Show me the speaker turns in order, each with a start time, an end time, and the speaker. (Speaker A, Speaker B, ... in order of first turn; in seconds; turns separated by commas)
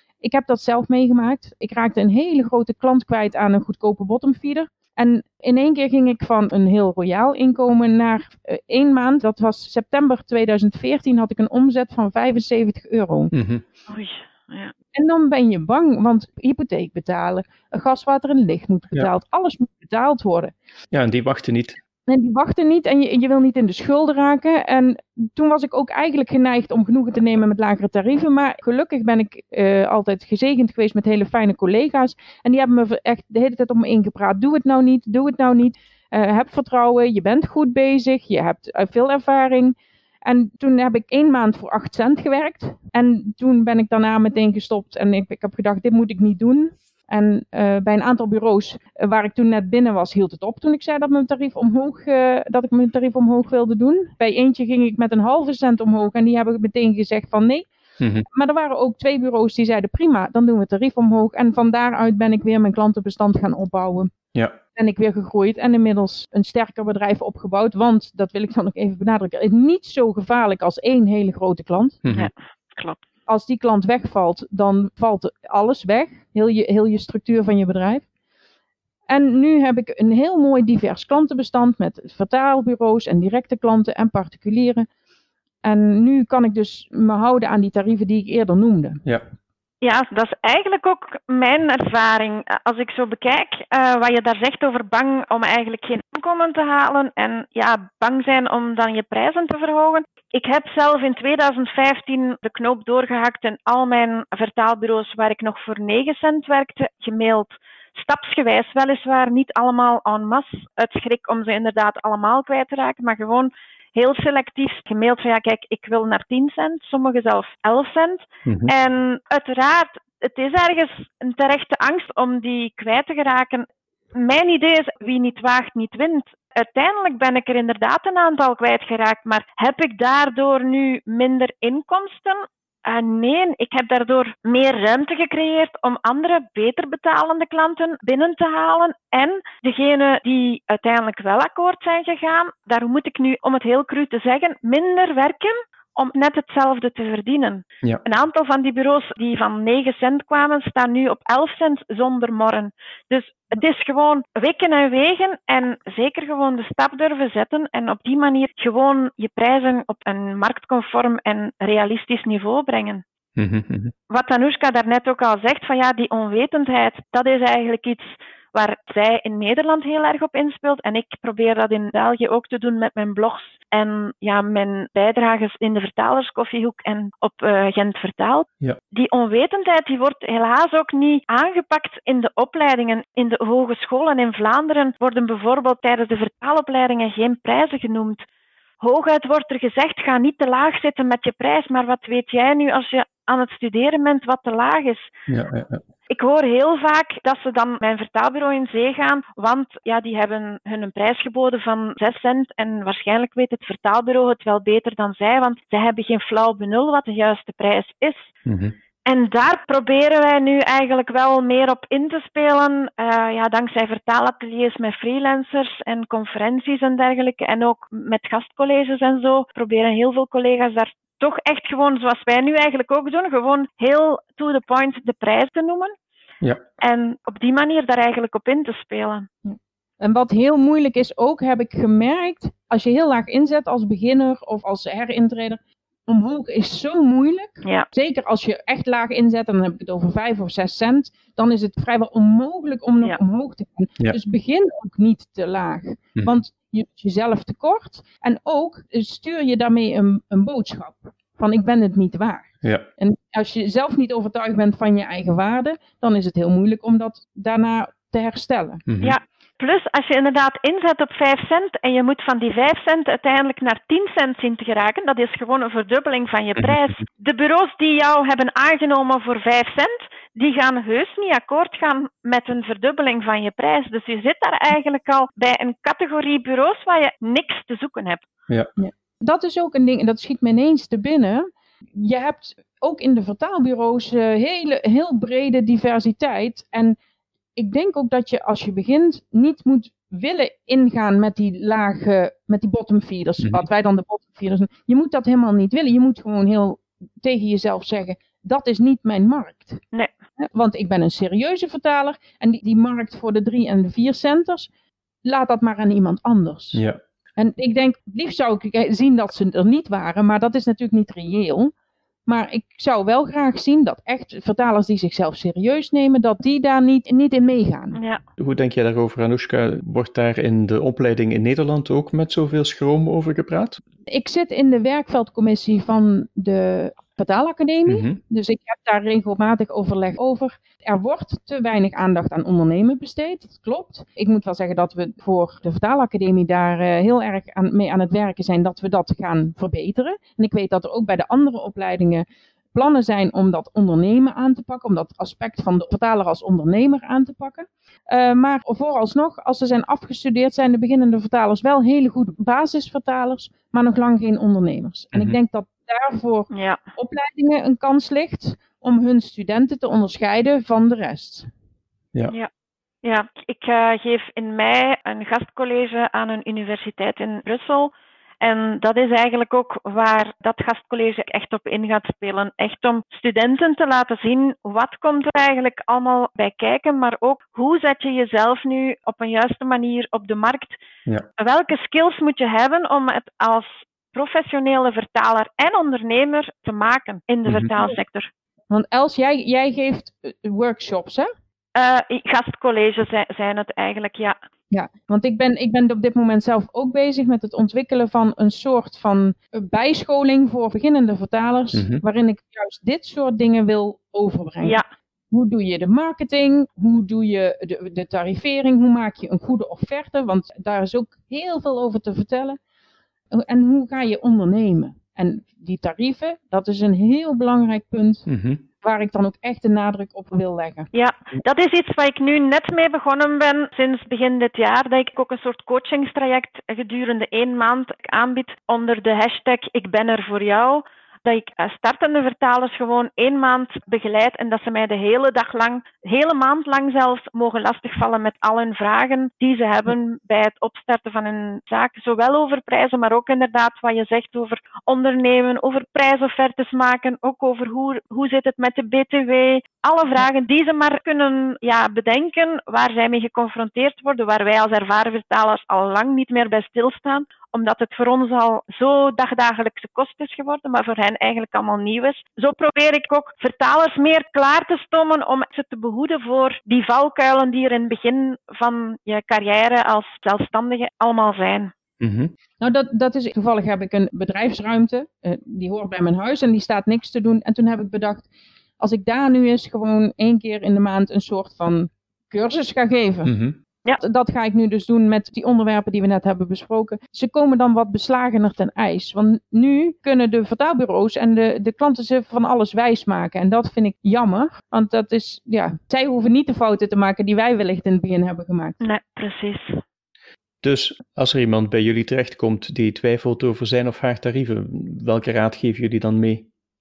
Speaker A: 0.2-13.3, Speaker B: 13.3-13.6, Speaker C: 13.9-14.7, Speaker A: 14.9-20.5, Speaker B: 20.9-21.8, Speaker A: 22.1-57.7, Speaker B: 58.0-58.3, Speaker A: 58.3-64.1, Speaker A: 64.8-72.0, Speaker B: 72.0-72.3, Speaker C: 72.1-73.0, Speaker A: 73.3-78.0, Speaker A: 79.1-84.9, Speaker A: 85.6-89.0, Speaker C: 89.8-163.0, Speaker B: 118.5-118.7, Speaker B: 163.4-163.9, Speaker C: 164.1-188.2, Speaker C: 188.8-195.1, Speaker B: 195.3-195.8, Speaker C: 196.1-208.3, Speaker B: 208.5-208.8, Speaker C: 209.1-225.9, Speaker C: 226.8-229.3, Speaker A: 229.4-258.8, Speaker B: 258.9-259.2, Speaker C: 259.0-278.3, Speaker A: 278.8-287.0, Speaker A: 287.6-299.8, Speaker A: 300.4-304.7, Speaker A: 305.2-306.8, Speaker B: 306.7-307.0, Speaker A: 307.4-311.7, Speaker A: 312.3-318.0, Speaker C: 317.9-318.2, Speaker B: 318.4-323.8, Speaker A: 324.1-361.5, Speaker B: 327.9-328.2, Speaker B: 355.1-355.4, Speaker C: 356.5-356.8, Speaker C: 363.0-380.8, Speaker C: 381.4-388.3, Speaker A: 388.7-391.3, Speaker C: 391.8-394.4, Speaker A: 394.7-412.6, Speaker B: 401.7-402.0, Speaker A: 413.3-418.3, Speaker B: 418.3-418.6, Speaker A: 418.8-420.9, Speaker C: 420.9-471.7, Speaker B: 472.0-472.3, Speaker A: 472.6-478.3, Speaker A: 478.8-483.3, Speaker B: 483.2-483.6, Speaker A: 484.0-498.8, Speaker C: 498.8-499.8, Speaker B: 500.6-506.5